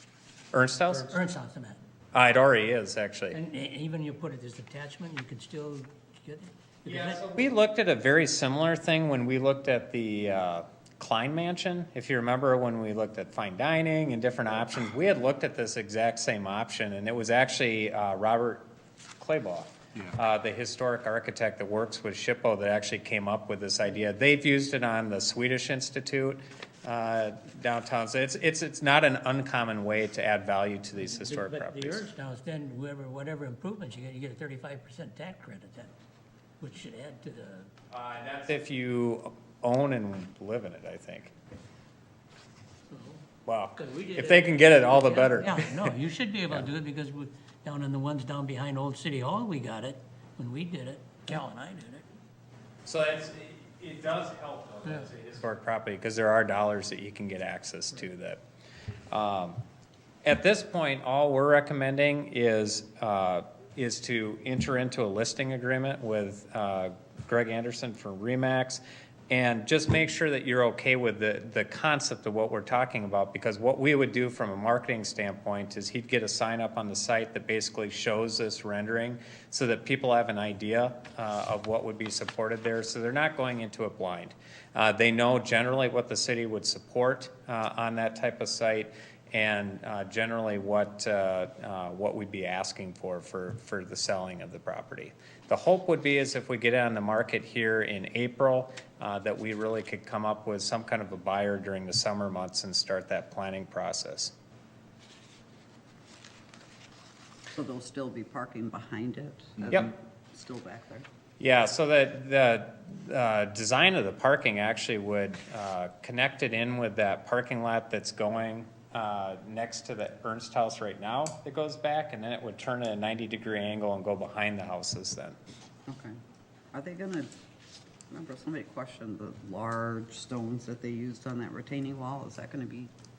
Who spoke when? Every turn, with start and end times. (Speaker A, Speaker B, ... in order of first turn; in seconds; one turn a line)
Speaker A: 0.5-1.2
Speaker B: 0.9-1.8
Speaker A: 2.1-3.4
Speaker B: 3.3-7.3
Speaker A: 6.8-18.6
Speaker A: 19.2-32.0
Speaker B: 31.1-35.9
Speaker B: 36.6-37.7
Speaker A: 37.9-41.3
Speaker B: 42.9-43.2
Speaker A: 43.5-45.9
Speaker B: 43.8-52.1
Speaker A: 52.8-58.4
Speaker A: 59.1-59.6
Speaker A: 60.2-104.3
Speaker C: 107.5-111.0
Speaker A: 111.4-125.4
Speaker C: 125.9-126.1
Speaker C: 126.7-127.3
Speaker C: 128.1-132.9